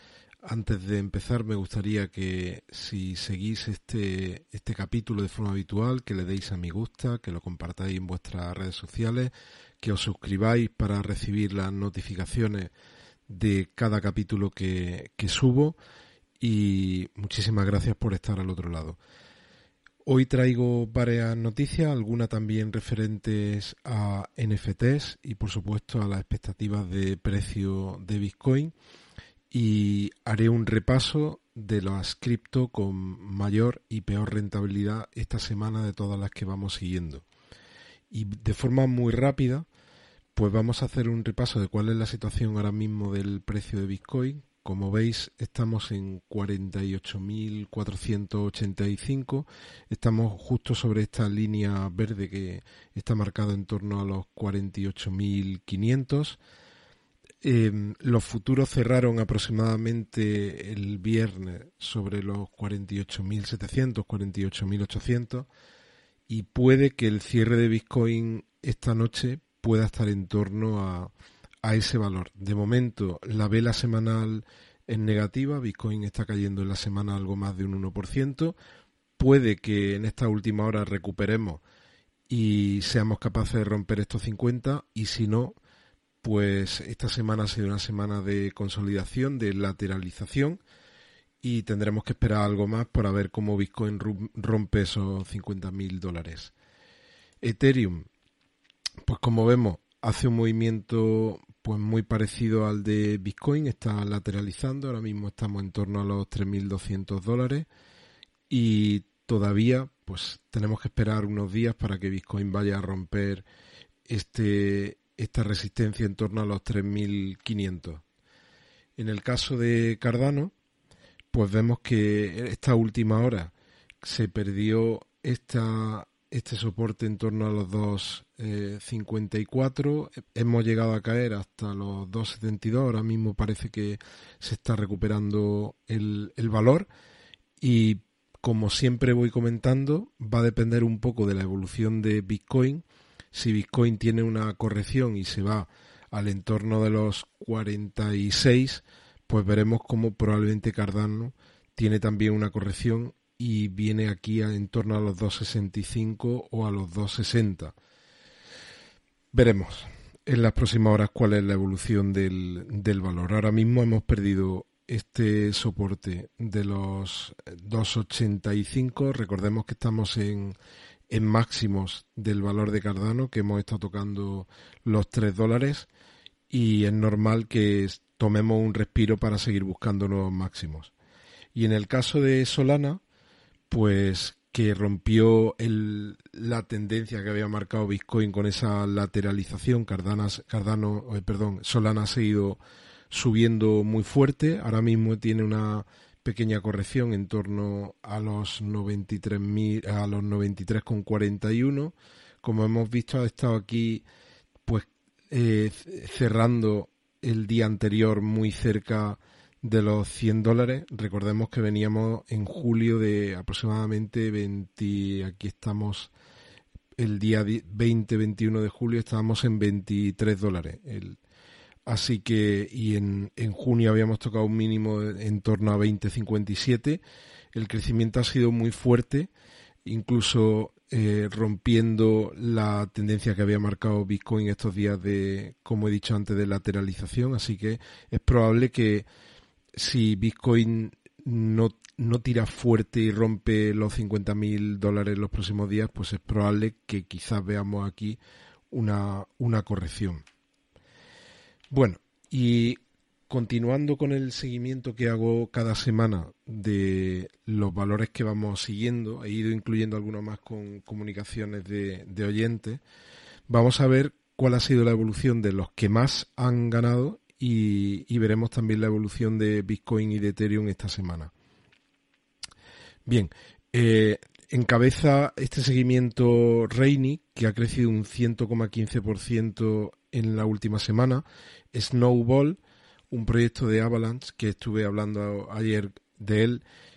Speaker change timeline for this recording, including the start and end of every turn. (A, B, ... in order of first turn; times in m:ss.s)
0:00.4-0:12.7 A
0:13.3-0:15.8 A
0:16.4-0:19.0 A
0:20.0-0:28.7 A
0:29.5-0:37.3 A
0:38.1-0:39.7 A
0:40.3-0:56.4 A
0:57.4-1:05.5 A
1:06.3-1:11.1 A
1:11.6-1:18.6 A
1:19.2-1:21.6 A
1:22.3-1:25.6 A
1:26.2-1:30.6 A
1:31.4-1:36.5 A
1:37.4-1:38.1 A
1:39.0-1:47.7 A
1:48.5-1:53.5 A
1:54.1-1:58.0 A
1:59.0-2:00.5 A
2:01.3-2:16.9 A
2:17.6-2:37.8 A
2:39.3-2:50.6 A
2:51.1-2:55.9 A
2:56.5-3:00.9 A
3:01.5-3:03.0 A
3:03.7-3:24.1 A
3:24.7-3:36.1 A
3:37.0-3:41.2 A
3:41.9-3:47.0 A
3:47.5-3:49.3 A
3:49.8-3:59.1 A
3:59.7-4:08.2 A
4:08.7-4:10.2 A
4:11.7-4:22.8 A
4:23.5-4:31.3 A
4:33.1-4:46.6 A